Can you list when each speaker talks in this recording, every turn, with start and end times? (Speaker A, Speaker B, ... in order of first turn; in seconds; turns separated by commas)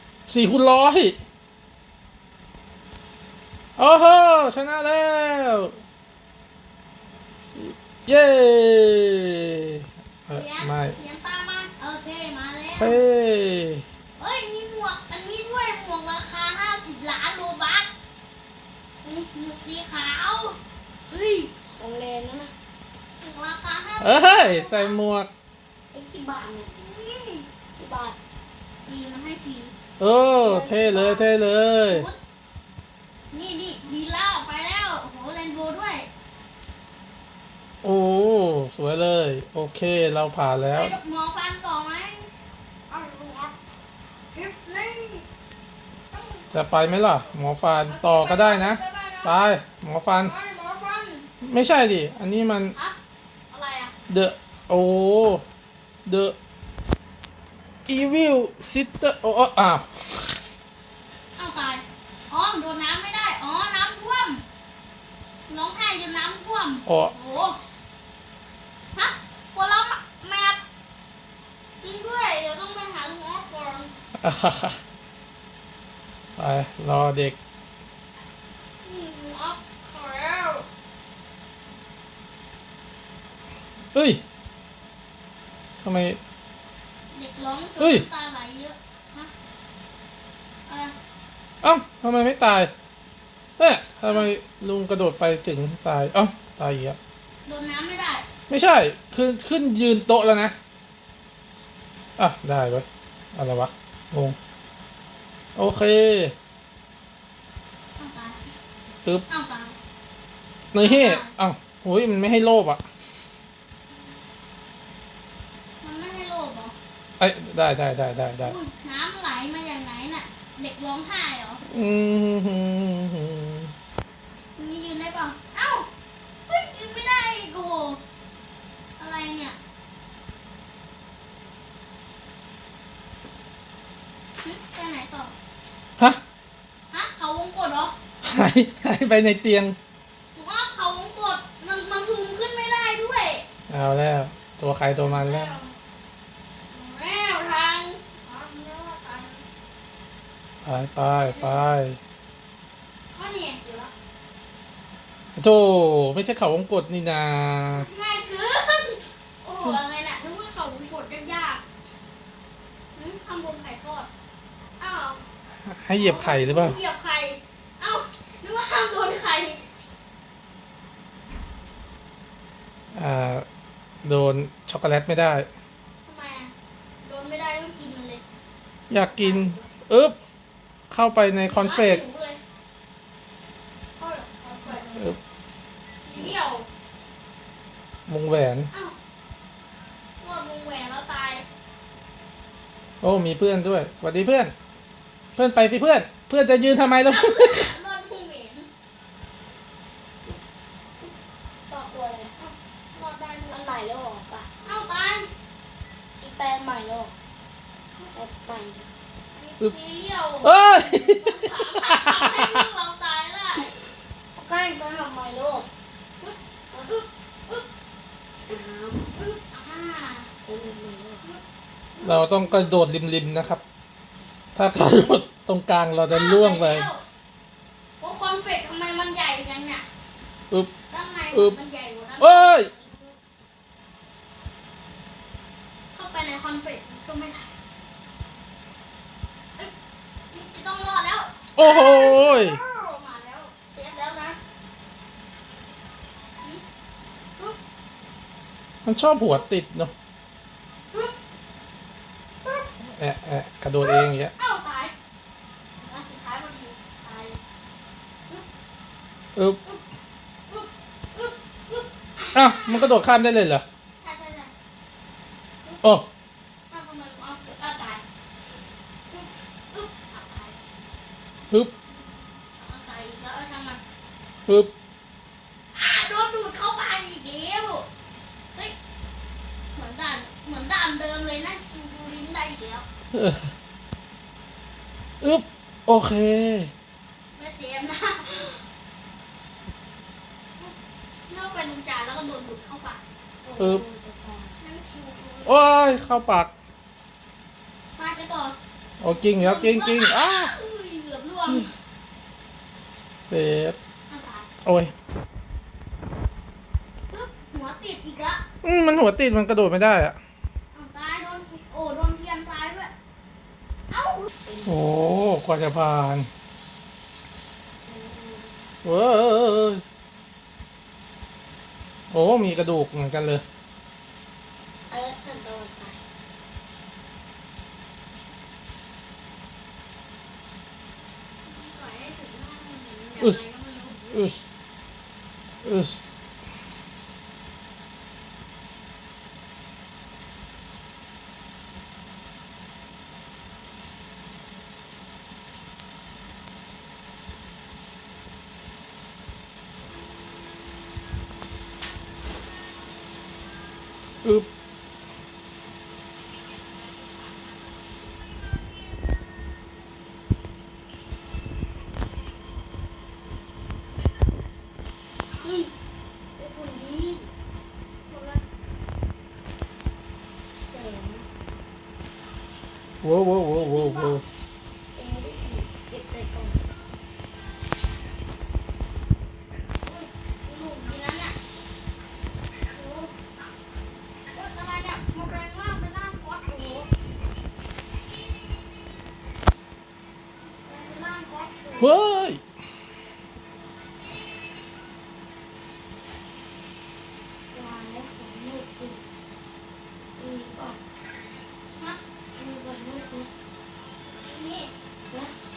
Speaker A: 0.3-1.2, Speaker A: 3.8-5.8, Speaker A: 7.5-11.0, Speaker B: 10.3-13.0, Speaker A: 12.8-13.8, Speaker B: 14.2-17.9, Speaker B: 19.0-20.6, Speaker C: 21.1-22.5, Speaker B: 23.2-25.0, Speaker A: 24.0-25.3, Speaker C: 25.9-26.7, Speaker B: 26.8-27.5, Speaker C: 27.8-28.2, Speaker B: 28.9-29.7, Speaker A: 30.0-32.1, Speaker C: 30.4-31.2, Speaker B: 30.5-30.9, Speaker B: 31.9-32.2, Speaker B: 33.3-36.1, Speaker A: 37.8-40.9, Speaker B: 40.8-42.3, Speaker B: 42.9-43.5, Speaker B: 44.3-45.2, Speaker B: 46.1-46.5, Speaker A: 46.5-50.3, Speaker B: 47.9-49.4, Speaker B: 50.2-51.3, Speaker A: 51.4-52.8, Speaker B: 53.5-53.9, Speaker A: 54.1-55.4, Speaker A: 56.1-56.4, Speaker A: 57.9-60.5, Speaker B: 61.4-64.4, Speaker B: 65.5-67.6, Speaker B: 68.9-70.6, Speaker B: 71.8-73.9, Speaker A: 74.2-74.8, Speaker A: 76.4-77.4, Speaker B: 78.8-80.7, Speaker A: 83.9-84.2, Speaker A: 85.8-86.2, Speaker B: 87.1-89.3, Speaker A: 87.8-88.0, Speaker B: 90.7-91.0, Speaker A: 91.6-92.7, Speaker A: 93.6-97.0, Speaker B: 97.5-98.3, Speaker A: 98.5-100.5, Speaker A: 102.2-104.4, Speaker A: 105.6-106.3, Speaker B: 108.0-108.4, Speaker B: 109.3-109.8, Speaker A: 110.7-112.8, Speaker B: 110.8-111.3, Speaker B: 115.8-116.8, Speaker A: 117.2-118.5, Speaker B: 118.4-121.6, Speaker A: 121.7-123.7, Speaker B: 124.6-125.9, Speaker B: 126.5-128.0, Speaker B: 129.0-129.6, Speaker B: 134.4-135.3, Speaker B: 136.9-137.9, Speaker A: 138.2-139.8, Speaker B: 140.3-143.4, Speaker A: 143.7-145.6, Speaker B: 145.0-145.7, Speaker B: 146.7-149.4, Speaker A: 150.6-152.0, Speaker B: 151.2-151.6, Speaker B: 153.1-153.9, Speaker A: 155.4-157.9, Speaker B: 157.7-161.6, Speaker B: 162.9-164.1, Speaker B: 164.8-165.2, Speaker A: 165.7-166.8, Speaker B: 165.9-169.7, Speaker A: 172.9-173.5, Speaker A: 174.0-175.5, Speaker B: 176.1-178.2, Speaker A: 178.9-180.2, Speaker B: 179.0-179.7, Speaker A: 180.9-182.0, Speaker B: 181.4-182.4, Speaker B: 184.0-185.1, Speaker B: 186.0-186.7, Speaker A: 188.1-188.7, Speaker B: 190.2-191.4, Speaker A: 193.0-194.5, Speaker A: 195.4-197.7, Speaker B: 197.1-198.7, Speaker C: 201.7-202.3, Speaker B: 202.4-203.6, Speaker C: 203.5-204.5, Speaker B: 204.6-205.3, Speaker C: 206.2-207.1, Speaker C: 208.1-208.9, Speaker B: 209.3-213.7, Speaker A: 210.4-212.7, Speaker C: 214.4-215.7, Speaker B: 216.2-217.7, Speaker C: 218.5-219.1, Speaker B: 219.1-220.3, Speaker C: 220.4-221.2, Speaker B: 221.9-222.8, Speaker A: 222.0-223.6, Speaker A: 224.6-226.9, Speaker B: 226.1-227.0, Speaker B: 228.0-229.9, Speaker B: 230.9-233.1, Speaker A: 232.2-232.7, Speaker B: 235.9-237.5, Speaker B: 240.3-244.4, Speaker A: 241.6-242.6, Speaker A: 248.8-249.9, Speaker A: 253.0-254.3, Speaker B: 253.8-254.9, Speaker B: 255.8-257.4, Speaker B: 260.5-263.0, Speaker A: 262.3-263.6, Speaker B: 264.0-264.5, Speaker B: 266.7-268.0, Speaker B: 269.1-270.6, Speaker B: 271.9-273.8, Speaker B: 275.7-277.9, Speaker B: 279.7-282.9, Speaker A: 283.1-283.5, Speaker A: 285.2-286.7, Speaker B: 287.3-288.6, Speaker B: 291.3-293.0, Speaker C: 293.4-294.6, Speaker A: 293.6-293.8, Speaker B: 294.6-295.9, Speaker A: 295.5-296.5, Speaker B: 298.0-301.7, Speaker A: 299.0-300.6, Speaker A: 303.3-303.8, Speaker B: 304.1-304.5, Speaker A: 304.6-304.9, Speaker B: 307.1-308.4, Speaker A: 308.6-310.2, Speaker B: 310.7-312.9, Speaker B: 313.9-314.3, Speaker C: 314.5-314.8, Speaker A: 314.6-316.3, Speaker C: 317.9-318.6, Speaker A: 318.8-319.8, Speaker A: 322.1-323.4, Speaker C: 324.9-326.0, Speaker B: 331.4-334.2, Speaker A: 333.2-333.4, Speaker A: 334.1-334.4, Speaker A: 335.6-336.0, Speaker C: 365.4-365.7, Speaker C: 366.4-367.3, Speaker B: 368.1-368.4, Speaker C: 370.6-371.3, Speaker A: 373.0-374.2, Speaker B: 373.5-374.2, Speaker C: 375.0-376.6, Speaker B: 379.8-381.4, Speaker C: 382.8-383.1, Speaker B: 384.3-386.9, Speaker B: 390.6-392.0, Speaker A: 391.8-392.4, Speaker C: 397.5-399.0, Speaker C: 400.2-400.8, Speaker C: 402.3-403.3, Speaker B: 404.2-404.7